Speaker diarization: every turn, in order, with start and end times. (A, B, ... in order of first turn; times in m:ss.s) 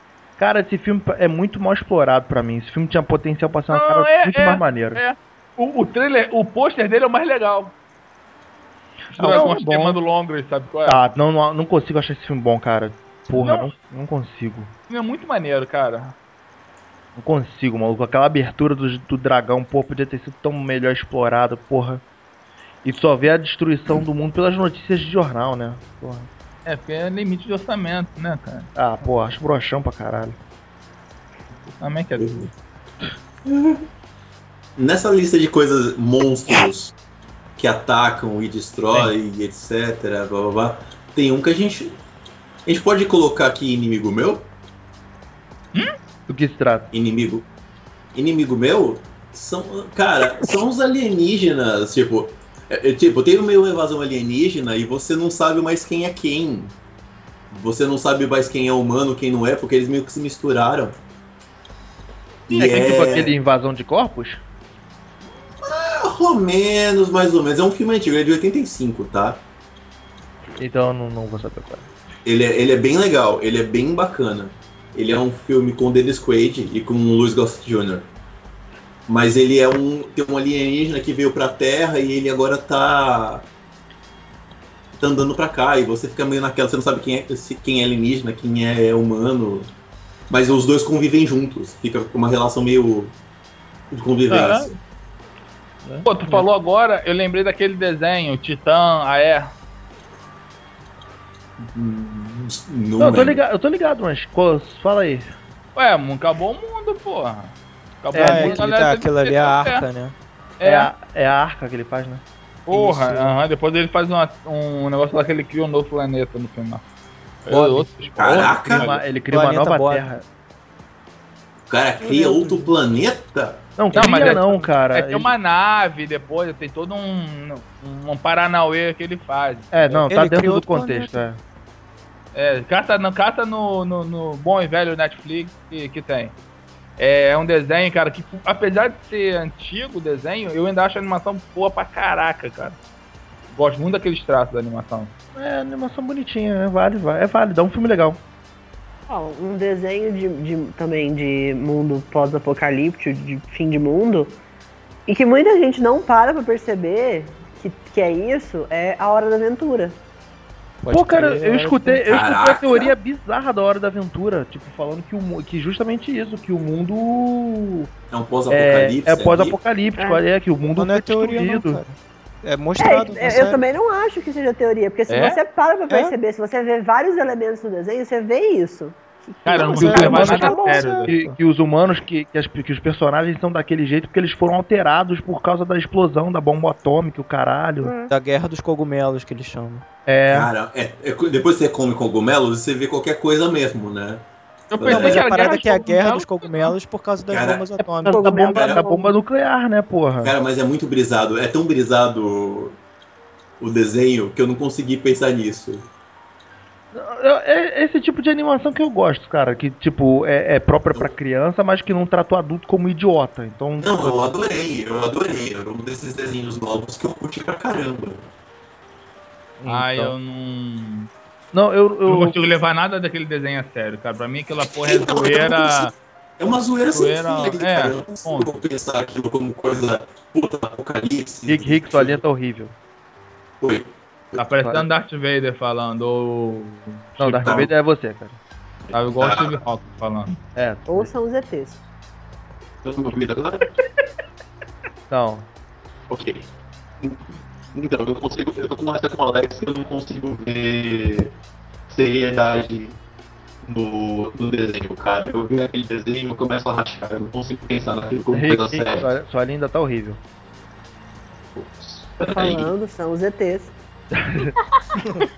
0:00.4-0:05.0 A
0:03.7-0:07.8 B
0:09.2-0:09.9 A
0:09.2-0:11.0 B
0:09.2-0:09.8 C
0:10.9-0:14.7 A
0:13.3-0:13.7 B
0:14.9-0:16.2 B
0:17.2-0:22.0 A
0:22.8-0:26.3 A
0:26.7-0:28.7 B
0:28.8-0:30.4 A
0:31.8-0:32.5 B
0:32.2-0:32.5 D
0:33.5-0:33.8 D
0:34.8-0:36.9 D
0:37.6-0:42.0 D
0:42.6-0:44.5 D
0:46.3-0:46.9 A
0:46.9-0:47.5 D
0:48.2-0:56.7 D
0:57.5-1:01.0 D
1:02.5-1:03.3 D
1:02.5-1:04.4 A
1:05.6-1:09.4 D
1:10.6-1:11.9 A
1:12.2-1:18.1 D
1:19.1-1:23.5 D
1:24.9-1:29.7 D
1:30.3-1:33.2 D
1:33.9-1:34.8 D
1:34.3-1:34.7 B
1:35.8-1:36.5 A
1:36.1-1:39.5 B
1:41.6-1:43.4 D
1:43.0-1:45.3 A
1:45.8-1:49.8 B
1:48.1-1:48.7 A
1:48.1-1:50.2 C
1:50.6-1:50.9 B
1:50.6-1:52.2 A
1:52.7-1:56.8 B
1:52.7-1:53.4 C
1:57.4-1:59.0 B
1:57.5-1:57.8 C
1:58.2-1:58.9 D
1:58.7-2:00.2 A
1:59.3-2:00.1 C
2:01.7-2:03.7 D
2:02.0-2:02.6 C
2:03.8-2:05.3 A
2:03.9-2:10.1 B
2:04.0-2:04.6 C
2:09.7-2:11.4 A
2:10.1-2:11.2 C
2:12.3-2:16.4 B
2:17.0-2:22.8 B
2:23.5-2:25.1 B
2:25.4-2:28.2 A
2:29.1-2:34.4 E
2:35.1-2:40.0 E
2:40.8-2:42.1 C
2:40.9-2:47.9 A
2:42.1-2:43.0 D
2:48.1-2:49.6 D
2:48.5-2:51.8 A
2:50.0-2:50.2 E
2:50.8-2:53.6 C
2:52.8-3:01.0 E
2:55.1-2:55.4 B
2:55.9-2:56.2 C
2:59.4-3:01.2 B
2:59.6-3:01.4 C
2:59.7-3:08.0 A
3:07.8-3:08.1 E
3:08.1-3:09.8 C
3:10.1-3:10.5 A
3:10.3-3:15.3 D
3:14.7-3:16.8 B
3:14.8-3:18.3 C
3:17.3-3:17.7 D
3:18.0-3:20.3 A
3:18.1-3:19.2 E
3:18.5-3:18.8 D
3:20.2-3:22.8 D
3:23.6-3:25.9 D
3:26.9-3:34.1 A
3:33.8-3:38.3 D
3:39.6-3:40.1 A
3:39.7-3:41.1 B
3:41.5-3:42.4 A
3:42.1-3:45.9 B
3:44.8-3:52.2 D
3:46.9-3:48.5 B
3:51.5-3:52.7 A
3:53.6-3:54.4 D
3:54.4-3:57.6 B
3:54.6-3:54.8 A
3:57.2-3:58.4 A
3:57.3-3:57.7 D
3:58.9-3:59.6 D
3:58.9-4:00.4 B
4:00.6-4:01.1 A
4:00.9-4:01.8 E
4:02.8-4:03.7 D
4:05.1-4:05.5 A
4:06.1-4:06.4 D
4:07.0-4:11.3 D
4:11.9-4:13.0 D
4:13.6-4:19.1 D
4:18.3-4:20.2 A
4:21.6-4:22.7 D
4:22.3-4:23.7 E
4:24.1-4:24.6 A